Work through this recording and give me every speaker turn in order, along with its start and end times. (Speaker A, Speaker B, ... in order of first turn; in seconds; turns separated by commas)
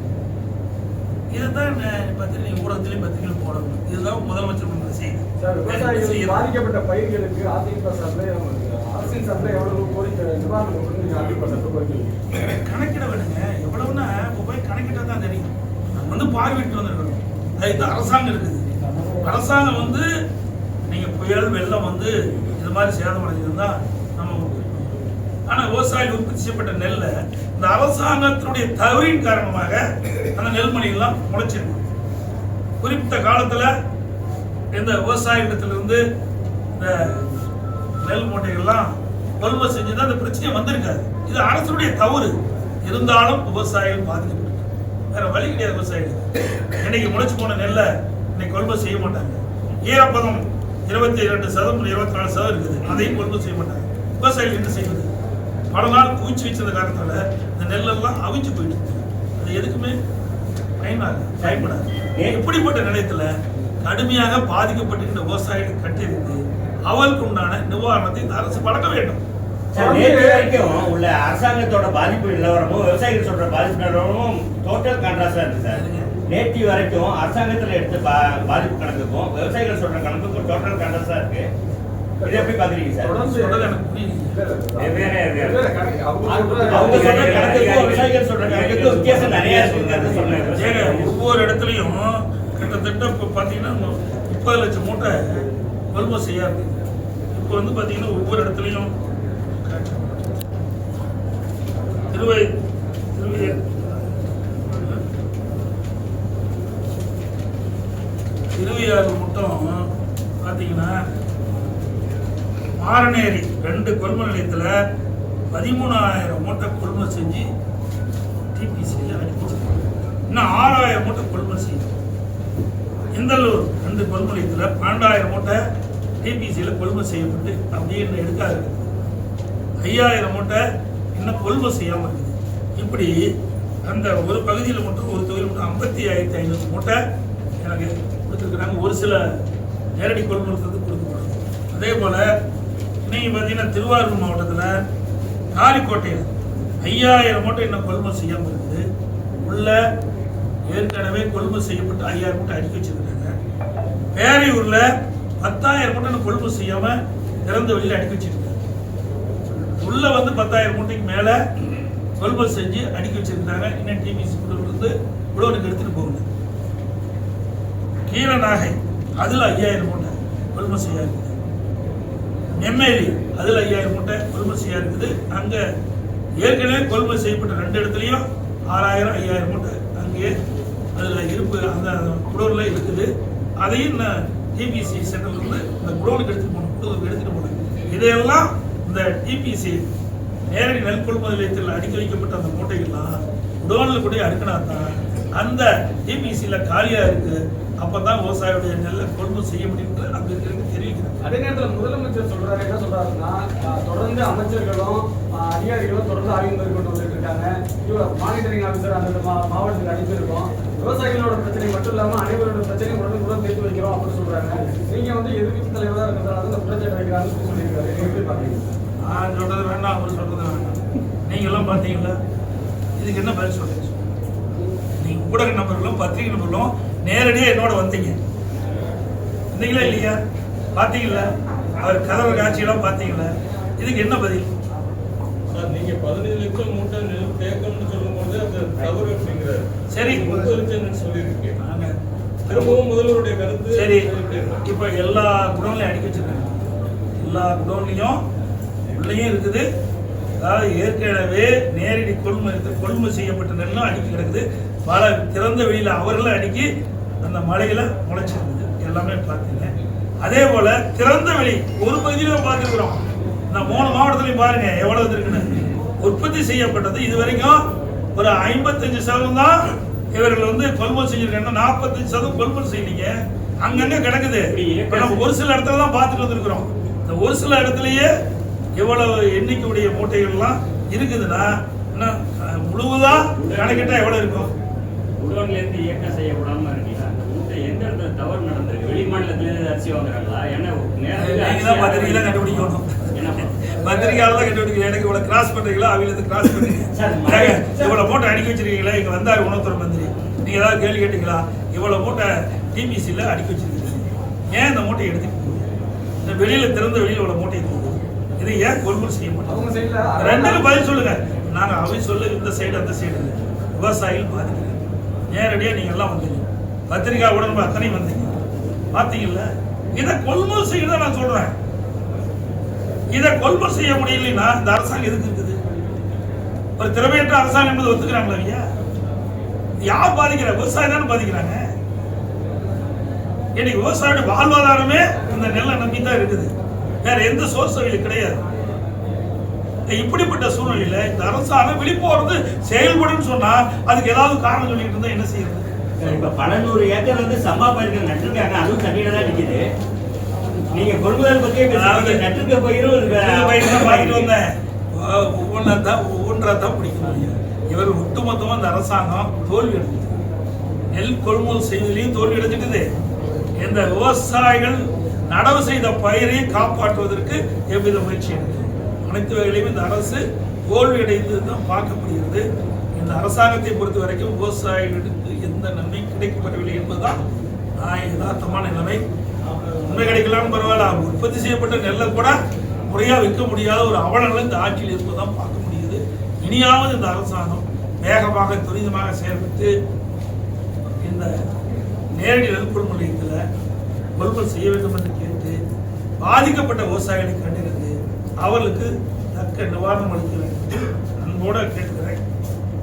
Speaker A: 1.3-6.5, Speaker B: 5.4-12.2, Speaker A: 12.4-18.7, Speaker A: 19.2-20.1, Speaker A: 20.9-24.8, Speaker A: 25.5-31.8, Speaker A: 32.8-33.7, Speaker A: 34.7-36.0, Speaker A: 36.8-37.2, Speaker A: 38.0-46.3, Speaker A: 46.8-55.1, Speaker A: 55.7-60.0, Speaker A: 60.8-69.2, Speaker C: 61.4-62.4, Speaker C: 69.7-81.5, Speaker B: 69.7-70.6, Speaker A: 75.7-76.1, Speaker B: 82.2-83.7, Speaker C: 82.2-83.2, Speaker A: 83.2-84.3, Speaker B: 84.3-87.7, Speaker D: 84.8-85.6, Speaker D: 86.5-91.2, Speaker C: 86.6-90.5, Speaker A: 90.5-96.8, Speaker A: 97.3-98.9, Speaker A: 99.6-100.2, Speaker A: 102.1-102.5, Speaker A: 103.2-103.6, Speaker A: 104.7-105.0, Speaker A: 108.5-109.9, Speaker A: 110.4-111.0, Speaker A: 112.8-114.7, Speaker A: 115.5-117.5, Speaker A: 118.5-121.9, Speaker A: 123.1-125.6, Speaker A: 126.2-128.9, Speaker A: 129.8-130.6, Speaker A: 131.1-133.3, Speaker A: 133.8-137.0, Speaker A: 137.6-139.2, Speaker A: 139.9-142.3, Speaker A: 143.0-144.8, Speaker A: 145.5-146.3, Speaker A: 146.8-148.8, Speaker A: 149.4-149.8, Speaker A: 150.7-153.3, Speaker A: 154.1-154.8, Speaker A: 155.4-158.6, Speaker A: 159.8-161.4, Speaker A: 162.2-166.2, Speaker A: 168.1-171.3, Speaker A: 172.6-175.6, Speaker A: 176.4-180.3, Speaker A: 180.9-183.1, Speaker A: 183.6-189.8, Speaker A: 190.5-201.2, Speaker B: 201.2-218.7, Speaker A: 219.0-222.2, Speaker A: 223.0-224.0, Speaker A: 225.0-228.2, Speaker A: 229.5-230.2, Speaker A: 230.7-234.5, Speaker E: 235.5-241.5, Speaker A: 239.9-240.5, Speaker A: 241.6-242.8, Speaker E: 242.5-244.5, Speaker A: 243.7-246.5, Speaker A: 247.2-248.2, Speaker A: 248.9-249.7, Speaker A: 250.4-256.7, Speaker A: 257.2-259.7, Speaker A: 260.2-267.6, Speaker A: 268.1-278.1, Speaker D: 274.5-275.3, Speaker A: 278.8-284.5, Speaker D: 283.2-284.4, Speaker D: 285.2-294.2, Speaker A: 291.2-305.6, Speaker C: 296.9-298.0, Speaker A: 306.2-309.6, Speaker B: 309.5-310.9, Speaker A: 310.2-314.8, Speaker A: 315.3-318.3, Speaker A: 318.9-321.5, Speaker A: 323.1-325.6, Speaker A: 326.8-328.7, Speaker A: 329.8-331.6, Speaker A: 333.5-338.4, Speaker A: 339.9-345.7, Speaker C: 346.0-349.6, Speaker C: 350.7-354.3, Speaker A: 351.7-352.2, Speaker A: 353.1-360.1, Speaker A: 360.9-362.9, Speaker A: 363.6-377.2, Speaker A: 377.8-379.0, Speaker A: 379.8-382.4, Speaker A: 382.9-389.7, Speaker A: 391.0-391.3, Speaker A: 392.1-393.4, Speaker A: 394.1-395.6, Speaker A: 396.2-402.2